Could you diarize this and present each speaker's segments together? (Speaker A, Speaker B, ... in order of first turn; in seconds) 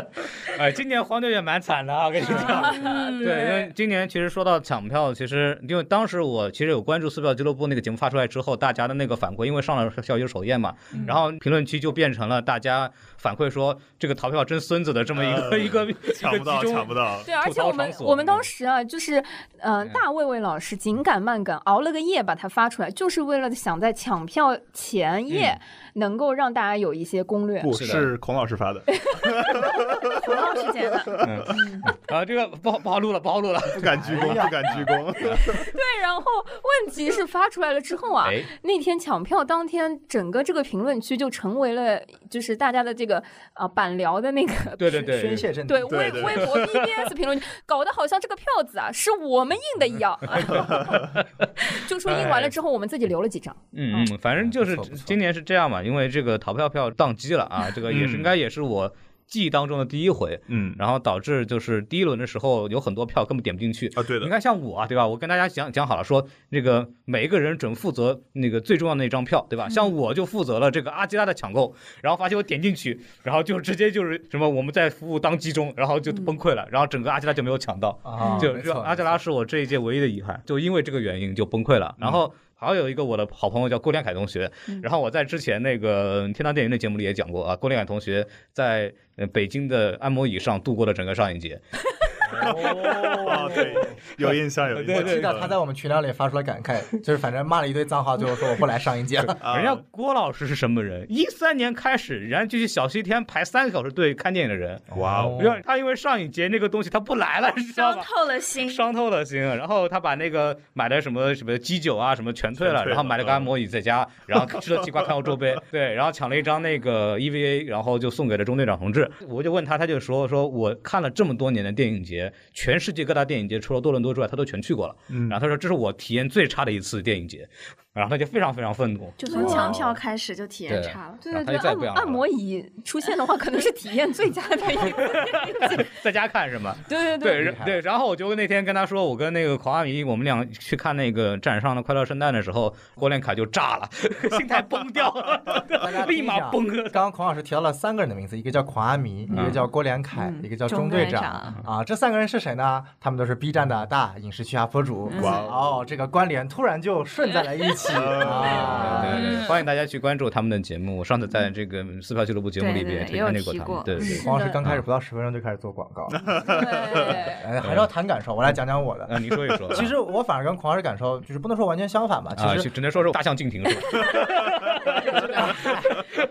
Speaker A: 0.5-18.4, 25.3-25.6, 27.8-28.1, 31.2-35.4, 38.2-38.5, 44.8-45.5, 46.5-47.0, 52.1-52.5, 53.7-91.6, 92.2-95.5, 99.5-104.8, 105.4-108.1, 108.6-129.7, 130.7-132.2, 134.8-147.0, 149.3-149.6, 158.4-164.8, 167.6-167.9, 169.1-169.9, 172.4-175.7
Speaker B: 2.2-3.7, 30.1-31.1, 76.1-76.3, 78.2-78.5, 107.7-108.9, 129.2-131.2, 150.1-151.6, 155.1-155.4, 157.2-157.8, 158.9-159.7, 162.6-164.2
Speaker C: 2.3-3.2, 17.2-27.7, 35.3-45.1, 45.6-53.6, 129.3-129.7, 131.2-135.9, 136.9-137.5, 164.1-164.6, 166.4-167.4
Speaker D: 15.1-17.3, 27.6-30.3, 33.7-35.6, 45.9-46.6, 50.5-51.0, 57.9-58.3, 60.5-60.8, 64.0-64.3, 92.3-95.5, 99.4-99.8, 104.9-105.5, 112.6-113.5, 114.6-115.1, 125.1-125.4, 129.3-130.0, 155.1-155.8, 157.8-159.1, 166.2-167.0
Speaker E: 33.9-34.6, 45.0-46.2, 54.5-55.1, 78.0-79.2, 94.9-99.4, 104.9-105.6, 137.4-137.8, 144.3-144.6, 145.6-159.3, 164.0-166.3, 167.0-172.7, 175.1-176.2